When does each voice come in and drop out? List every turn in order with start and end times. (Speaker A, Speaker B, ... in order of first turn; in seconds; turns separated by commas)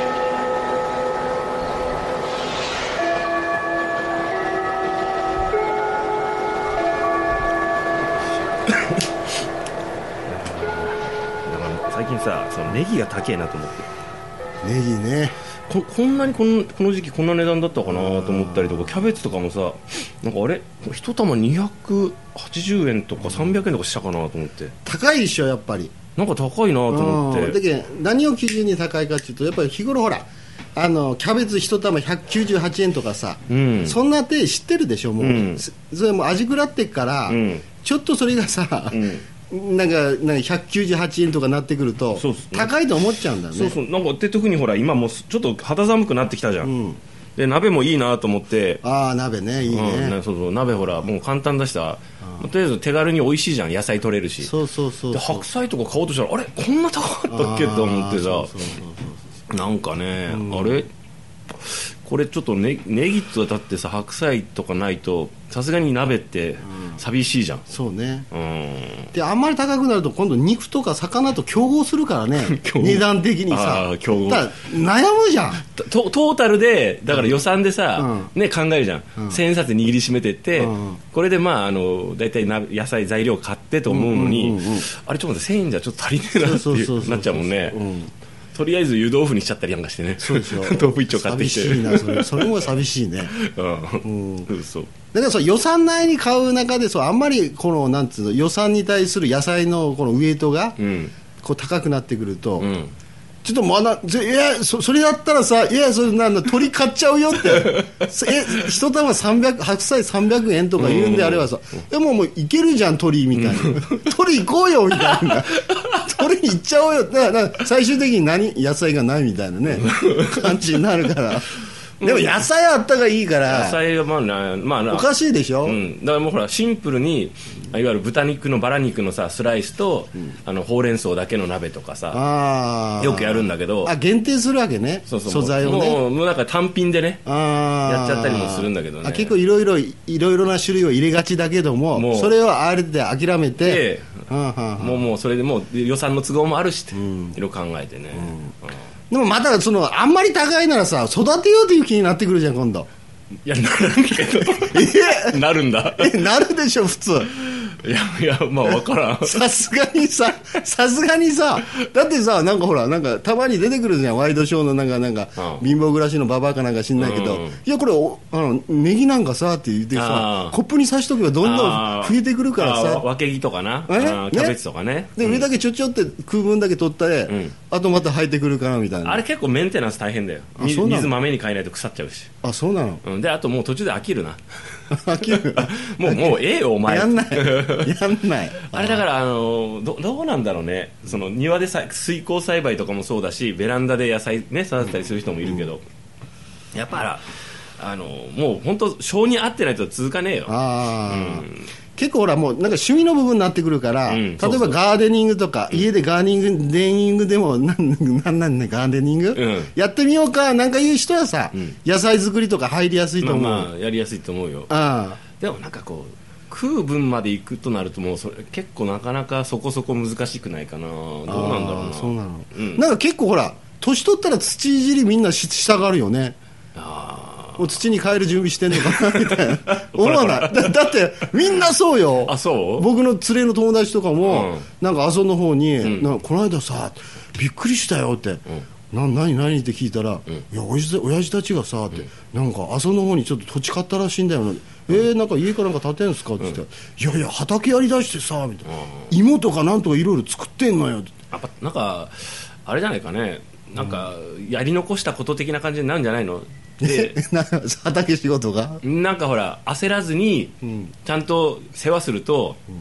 Speaker A: 10.2-13.9, Speaker B: 14.6-15.3, Speaker A: 15.7-24.7, Speaker B: 17.8-19.1, Speaker B: 24.8-25.9, Speaker A: 26.1-27.6, Speaker B: 26.9-43.8, Speaker A: 33.5-34.0, Speaker A: 35.2-35.6, Speaker A: 37.3-37.6, Speaker A: 38.9-39.2, Speaker A: 42.2-42.8, Speaker A: 43.5-46.7, Speaker B: 46.6-47.0, Speaker A: 47.4-48.8, Speaker B: 48.8-50.2, Speaker A: 49.7-54.5, Speaker B: 54.4-55.5, Speaker A: 55.1-58.7, Speaker B: 57.3-59.4, Speaker A: 59.5-60.9, Speaker B: 60.3-60.8, Speaker A: 61.5-67.7, Speaker B: 66.7-67.0, Speaker B: 67.7-68.3, Speaker A: 68.3-69.1, Speaker B: 69.1-75.6, Speaker A: 72.3-74.5, Speaker A: 75.6-87.8, Speaker B: 77.1-77.3, Speaker B: 78.0-78.3, Speaker B: 80.5-81.0, Speaker B: 83.9-84.8, Speaker B: 86.3-88.1, Speaker A: 88.5-92.7, Speaker B: 90.2-93.3, Speaker A: 93.3-94.9, Speaker B: 94.0-94.5, Speaker B: 95.1-100.8, Speaker A: 100.8-101.1, Speaker B: 101.4-102.7, Speaker A: 102.6-102.9, Speaker B: 103.4-121.5, Speaker A: 107.4-108.0, Speaker A: 110.8-111.5, Speaker A: 113.3-114.0, Speaker A: 115.1-116.0, Speaker A: 119.7-120.6, Speaker A: 122.0-122.4, Speaker B: 122.0-123.8, Speaker A: 123.5-125.1, Speaker B: 124.9-125.8, Speaker A: 125.6-132.2, Speaker B: 132.1-136.0, Speaker A: 133.0-133.9, Speaker A: 135.1-137.2, Speaker B: 137.2-145.1, Speaker A: 137.8-139.3, Speaker A: 141.9-142.3, Speaker A: 143.6-148.4, Speaker B: 146.9-147.4, Speaker B: 148.1-148.5, Speaker B: 149.1-152.9, Speaker A: 153.4-156.2, Speaker B: 154.4-157.3, Speaker A: 157.2-159.4, Speaker B: 159.2-173.1, Speaker A: 165.4-165.6, Speaker A: 167.0-167.6, Speaker A: 169.9-170.6, Speaker A: 171.4-175.5, Speaker B: 173.9-174.6, Speaker B: 175.1-179.2, Speaker A: 177.3-177.6, Speaker A: 179.0-182.3, Speaker B: 180.6-181.1, Speaker B: 182.4-183.0, Speaker A: 183.0-184.4, Speaker B: 184.9-189.0, Speaker A: 185.1-187.9, Speaker A: 188.6-195.8, Speaker A: 196.7-197.3, Speaker A: 197.8-201.7, Speaker B: 200.5-213.7, Speaker A: 204.1-204.8, Speaker A: 209.3-209.7, Speaker A: 213.2-222.8, Speaker B: 214.7-215.2, Speaker B: 221.3-226.3, Speaker A: 226.7-227.7, Speaker B: 227.6-251.1, Speaker A: 228.7-230.8, Speaker A: 232.2-232.9, Speaker A: 234.2-234.7, Speaker A: 235.8-236.2, Speaker A: 248.7-249.1, Speaker A: 251.3-257.2, Speaker B: 253.8-254.0, Speaker B: 256.8-258.8, Speaker A: 258.8-262.6, Speaker B: 260.6-260.9